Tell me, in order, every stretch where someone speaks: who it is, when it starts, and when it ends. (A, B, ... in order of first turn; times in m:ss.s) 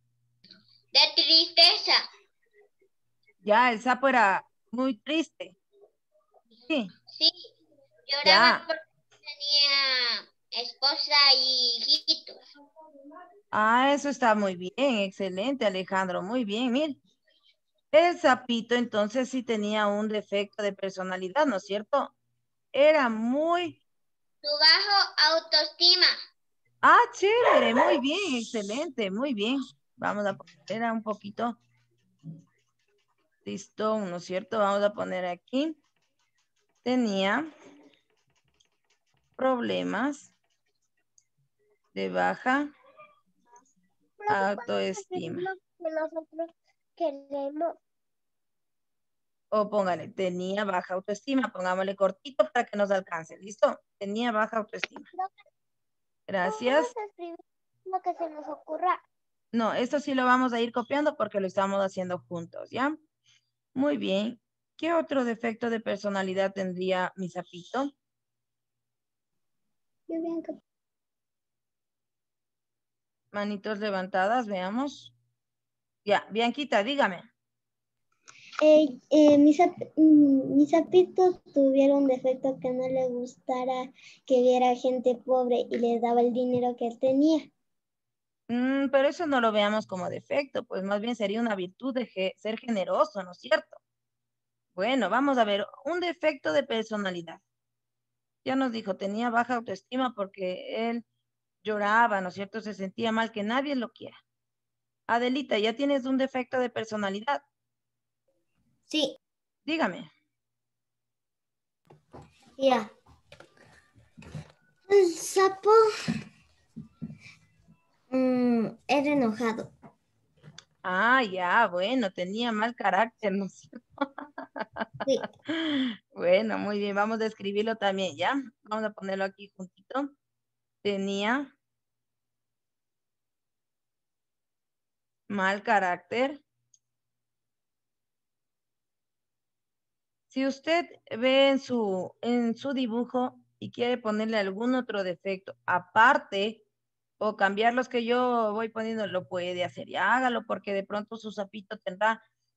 0:00.9-0:02.0 A
0:03.4-0:05.6 B
0:07.1-0:07.3 A
0:08.1-0:12.4 A
0:08.2-0:08.6 B
0:13.5-0:17.0 B
0:17.9-0:22.1 B
0:22.7-0:23.8 B
0:24.4-0:26.1 A
0:26.8-0:31.6 B
0:33.4-0:35.8 B
0:36.8-0:37.5 B
0:39.4-0:40.3 B
0:41.9-0:42.7 B
0:44.2-0:47.7 C
0:44.3-0:45.5 B
0:49.5-0:55.1 B
0:56.3-0:56.9 B
0:56.4-0:59.0 C
0:59.5-1:03.0 B
1:03.7-1:07.9 B
1:10.1-1:10.6 C
1:13.3-1:15.1 B
1:16.0-1:17.3 B
1:18.6-1:27.5 C
1:28.5-1:33.8 B
1:34.7-1:37.4 B
1:38.4-1:41.0 B
1:41.6-1:44.1 B
1:45.1-1:47.4 B
1:48.9-1:49.2 D
1:49.6-1:50.1 B
1:52.6-1:52.9 D
1:54.9-1:55.8 D
1:58.1-1:59.7 D
2:00.8-2:04.8 B
2:05.4-2:10.1 B
2:10.8-2:11.5 B
2:15.3-2:16.4 B
2:20.3-2:26.6 B
2:27.2-2:32.2 B